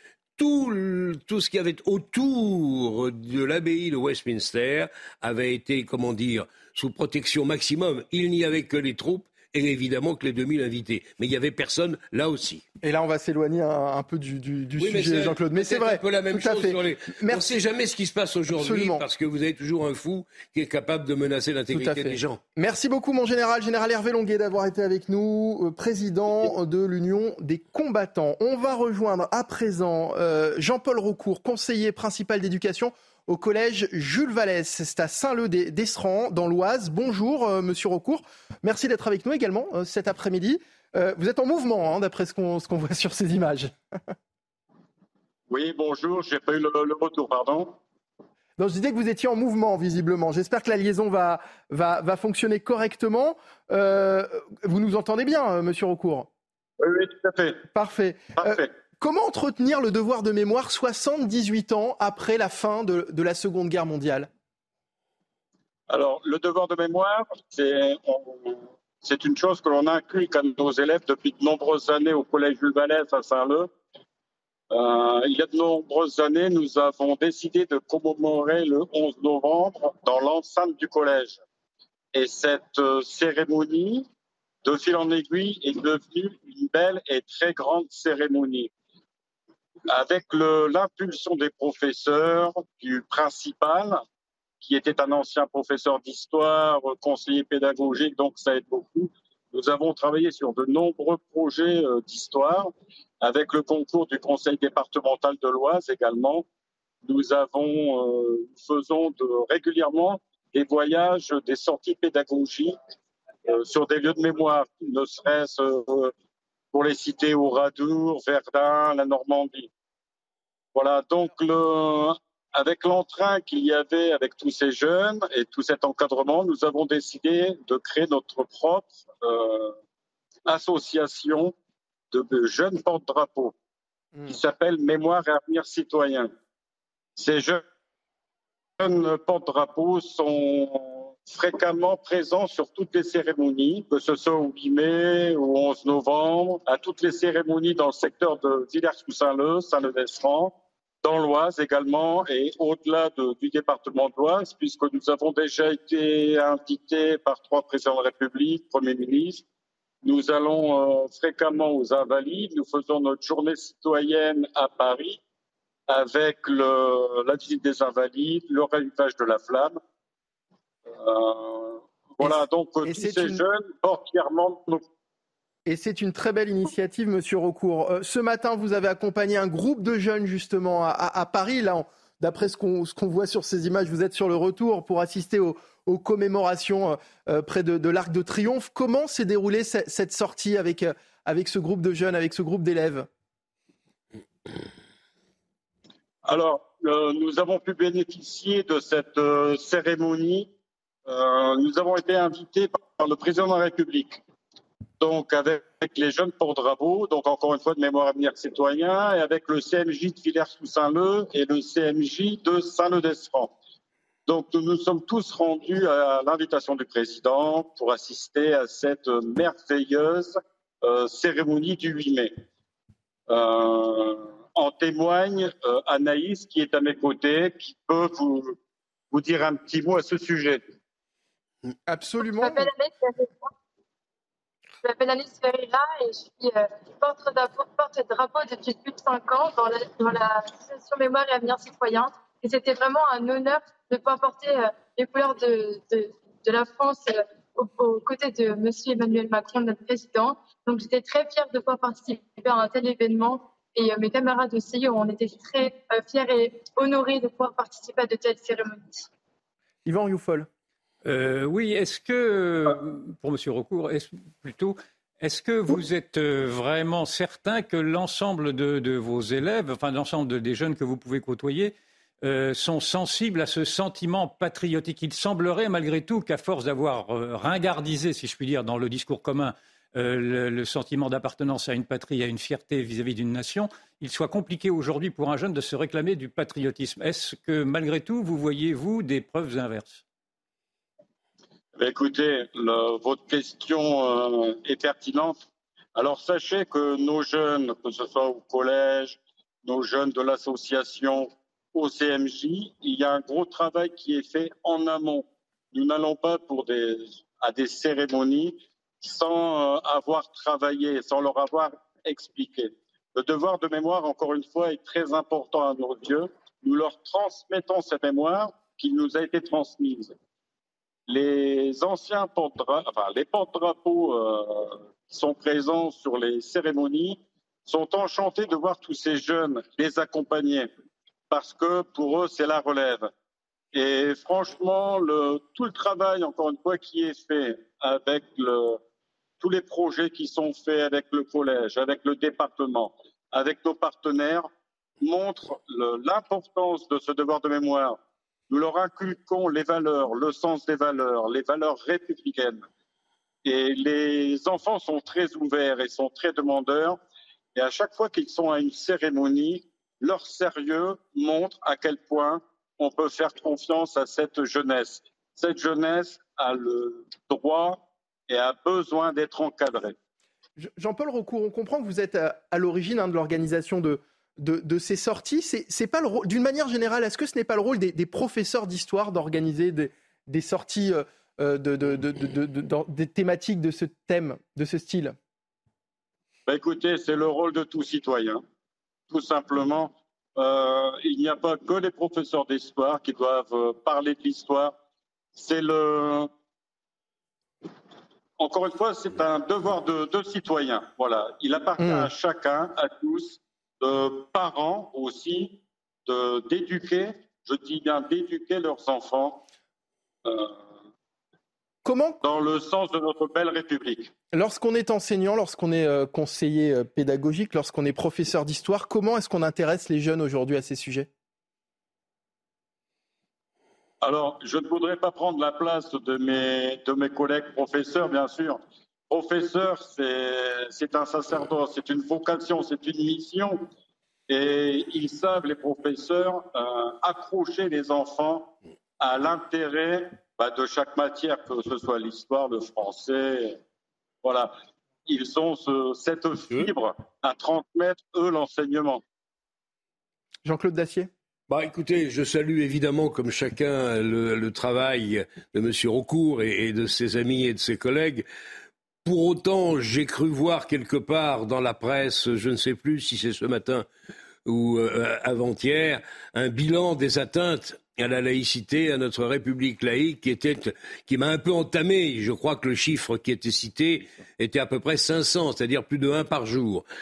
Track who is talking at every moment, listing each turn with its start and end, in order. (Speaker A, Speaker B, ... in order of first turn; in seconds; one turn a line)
Speaker A: 0.4-12.6
Speaker B: 12.8-17.5
Speaker A: 14.8-22.4
Speaker B: 18.5-19.0
Speaker B: 21.7-43.7
Speaker C: 45.5-47.8
Speaker B: 48.6-56.3
Speaker C: 56.8-57.6
Speaker B: 57.7-64.3
Speaker C: 58.4-58.7
Speaker C: 65.9-73.7
Speaker C: 74.7-81.4
Speaker C: 82.1-84.0
Speaker C: 84.6-88.7
Speaker C: 89.9-94.0
Speaker C: 94.6-106.5
Speaker C: 107.0-112.8
Speaker C: 113.5-116.1
Speaker C: 116.7-119.7
Speaker C: 120.7-129.7
Speaker C: 130.4-131.5
Speaker C: 132.1-133.5
Speaker C: 134.3-136.3
Speaker C: 137.2-137.6
Speaker C: 138.8-159.4
Speaker C: 160.0-165.2
Speaker C: 165.9-169.8
Speaker C: 170.9-174.8
Speaker B: 172.2-173.4
Speaker B: 175.7-193.1
Speaker C: 196.2-200.5
Speaker C: 201.1-204.2
Speaker C: 205.0-213.5
Speaker C: 214.3-222.3
Speaker C: 223.3-228.6
Speaker C: 229.1-230.6
Speaker B: 231.9-232.7
Speaker D: 232.2-233.5
Speaker D: 234.8-259.1
Speaker B: 259.8-260.5
Speaker E: 261.0-290.0
Speaker C: 291.8-295.4
Speaker C: 295.9-320.1
Speaker C: 321.1-330.7
Speaker C: 331.3-333.1
Speaker C: 333.7-338.8
Speaker C: 339.4-344.5
Speaker C: 345.0-348.0
Speaker C: 348.5-352.6
Speaker C: 353.4-357.0
Speaker C: 357.5-369.9
Speaker B: 370.6-385.1
Speaker C: 386.5-388.4
Speaker C: 389.1-394.8
Speaker C: 395.3-396.3
Speaker C: 398.4-409.4
Speaker B: 401.8-402.1
Speaker C: 410.2-410.5
Speaker B: 411.8-412.2
Speaker C: 412.2-414.1
Speaker B: 414.3-421.1
Speaker C: 424.0-433.6
Speaker C: 434.3-443.6
Speaker C: 444.2-444.6
Speaker C: 445.1-449.0
Speaker B: 450.4-451.1
Speaker A: 451.5-458.2
Speaker A: 459.0-463.9
Speaker A: 464.4-476.9